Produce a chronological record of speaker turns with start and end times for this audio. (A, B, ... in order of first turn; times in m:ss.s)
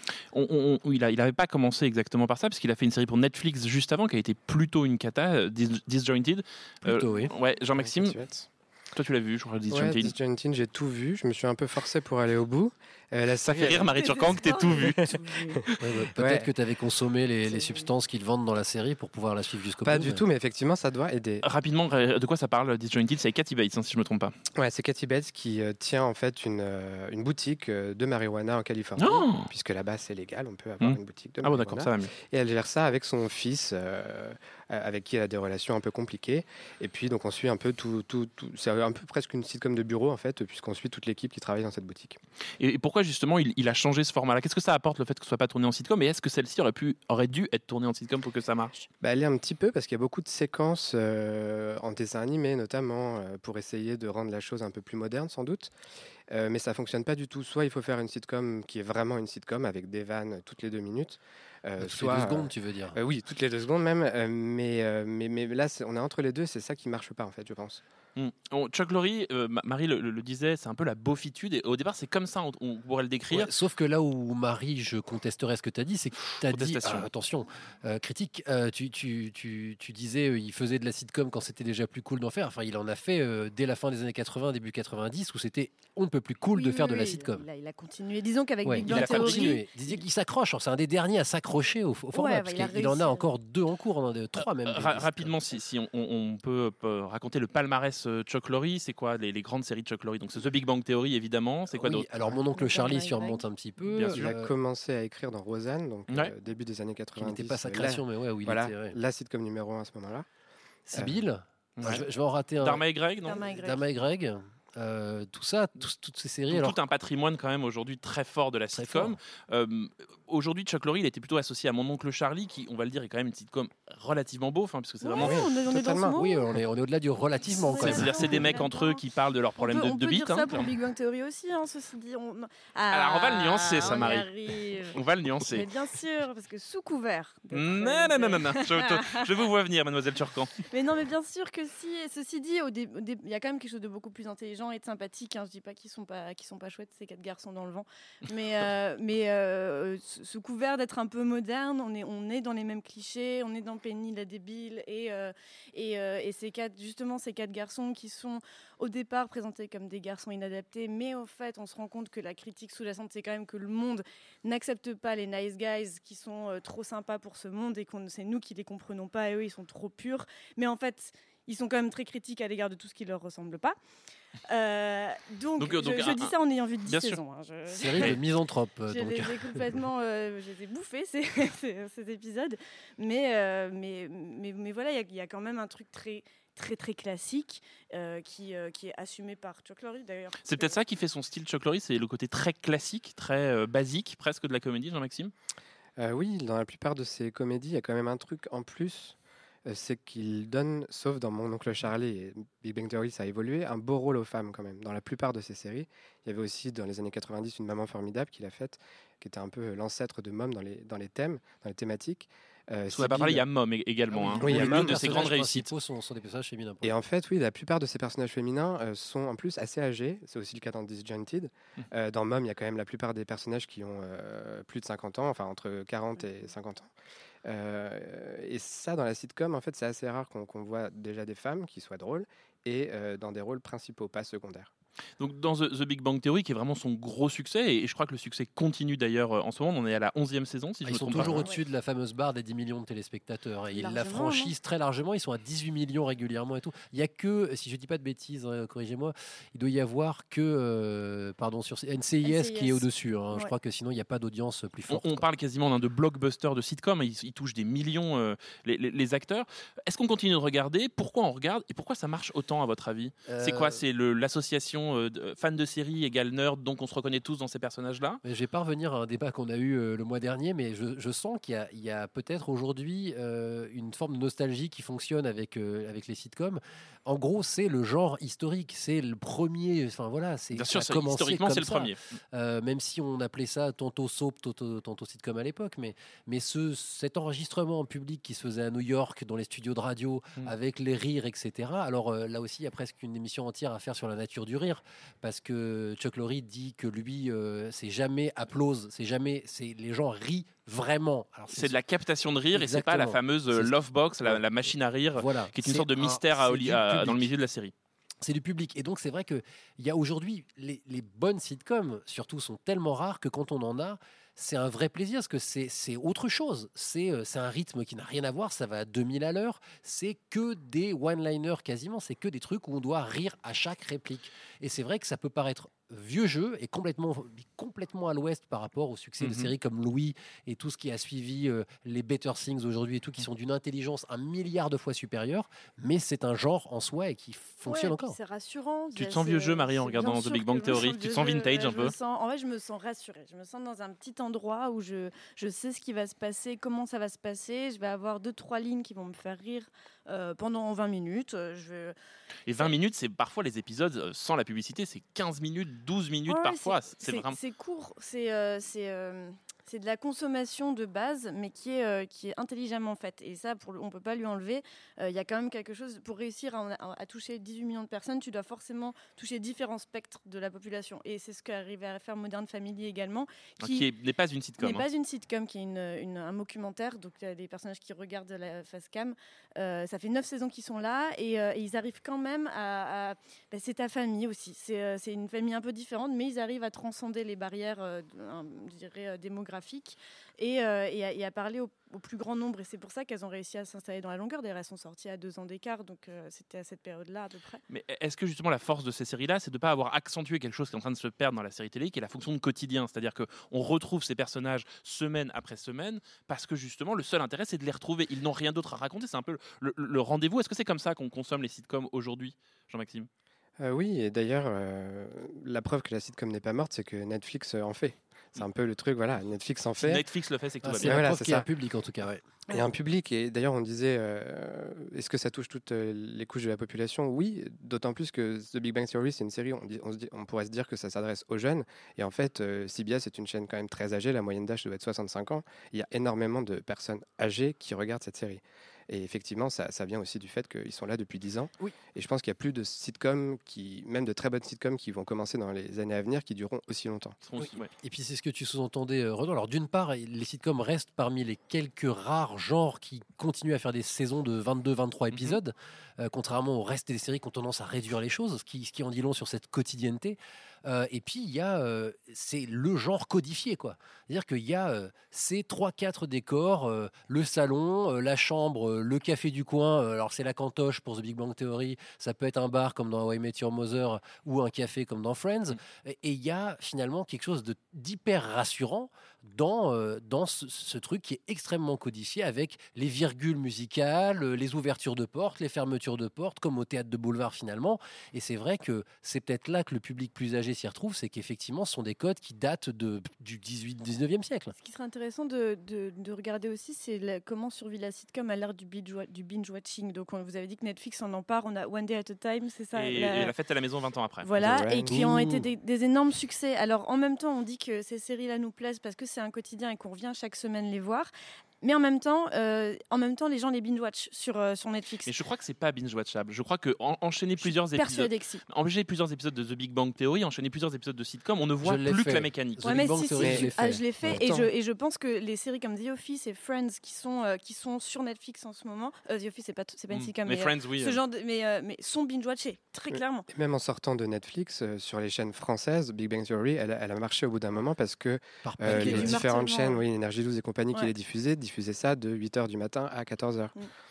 0:00.3-0:08.3 A
0:06.8-0:07.3 B
0:07.8-0:08.5 C
0:08.9-0:10.1 A
0:09.7-0:14.0 C
0:13.5-0:15.1 A
0:14.0-0:15.6 D
0:14.8-0:16.5 C
0:15.8-0:20.2 B
0:17.5-0:17.9 D
0:19.8-0:21.4 C
0:21.4-0:24.3 A
0:24.6-0:42.2 C
0:29.0-0:29.5 A
0:30.8-0:32.1 A
0:42.6-0:48.7 A
0:49.0-0:55.7 C
0:56.3-1:07.8 C
1:01.8-1:03.0 B
1:08.2-1:13.5 A
1:13.3-1:27.4 B
1:16.5-1:17.1 A
1:26.5-1:30.0 D
1:28.6-1:35.3 B
1:28.8-1:29.6 A
1:32.1-1:33.3 D
1:34.6-1:42.1 A
1:41.7-1:44.5 B
1:42.5-1:43.4 D
1:43.9-1:44.3 A
1:44.1-1:50.3 C
1:47.2-1:49.0 B
1:50.9-1:56.8 B
1:50.9-1:51.2 C
1:51.8-1:52.0 A
1:52.6-1:53.4 A
1:53.2-1:53.8 D
1:56.5-2:05.4 A
1:58.7-1:59.2 B
2:05.0-2:06.4 D
2:05.2-2:06.2 C
2:06.1-2:08.6 B
2:07.6-2:10.7 A
2:07.7-2:09.0 D
2:09.6-2:19.2 D
2:12.9-2:14.3 A
2:14.9-2:15.7 A
2:17.5-2:20.5 A
2:20.7-2:53.8 D
2:54.5-2:58.2 D
2:55.6-2:56.3 A
2:56.9-2:57.2 A
2:57.7-2:59.7 B
2:58.9-3:10.8 D
3:10.4-3:15.3 A
3:16.0-3:33.4 C
3:32.9-3:35.7 A
3:34.1-3:36.9 B
3:34.4-3:35.3 C
3:36.8-3:46.9 C
3:47.4-3:54.7 C
3:55.2-4:01.4 A
4:00.8-4:15.2 B
4:03.7-4:04.5 D
4:12.2-4:13.5 D
4:14.9-4:28.2 A
4:23.3-4:23.8 B
4:28.2-5:01.8 B
4:40.5-4:42.0 A
5:01.5-5:07.7 A
5:02.5-5:04.4 B
5:05.1-5:07.3 B
5:08.2-5:38.2 B
5:29.2-5:29.5 A
5:37.6-5:51.9 D
5:39.0-5:41.9 A
5:52.4-5:57.4 A
5:56.3-6:13.9 D
6:13.6-6:14.8 A
6:14.6-6:37.6 D
6:37.7-6:53.1 A
6:53.6-7:00.0 C
6:59.8-7:01.1 A
7:00.6-7:02.2 B
7:00.8-7:01.4 C
7:02.5-7:27.2 C
7:27.2-7:27.7 A
7:27.4-8:14.5 B
7:35.1-7:35.4 A
8:14.6-8:23.3 D
8:22.7-8:24.3 A
8:24.2-8:31.1 D
8:24.4-8:25.1 C
8:24.8-8:25.4 B
8:31.6-8:35.1 D
8:35.0-8:42.6 A
8:37.4-8:38.4 D
8:41.6-8:44.3 B
8:42.6-8:53.2 D
8:43.2-8:43.5 C
8:44.0-8:44.5 C
8:49.9-8:51.0 A
8:52.9-9:03.5 C
8:58.4-8:59.2 B
8:58.7-8:59.8 D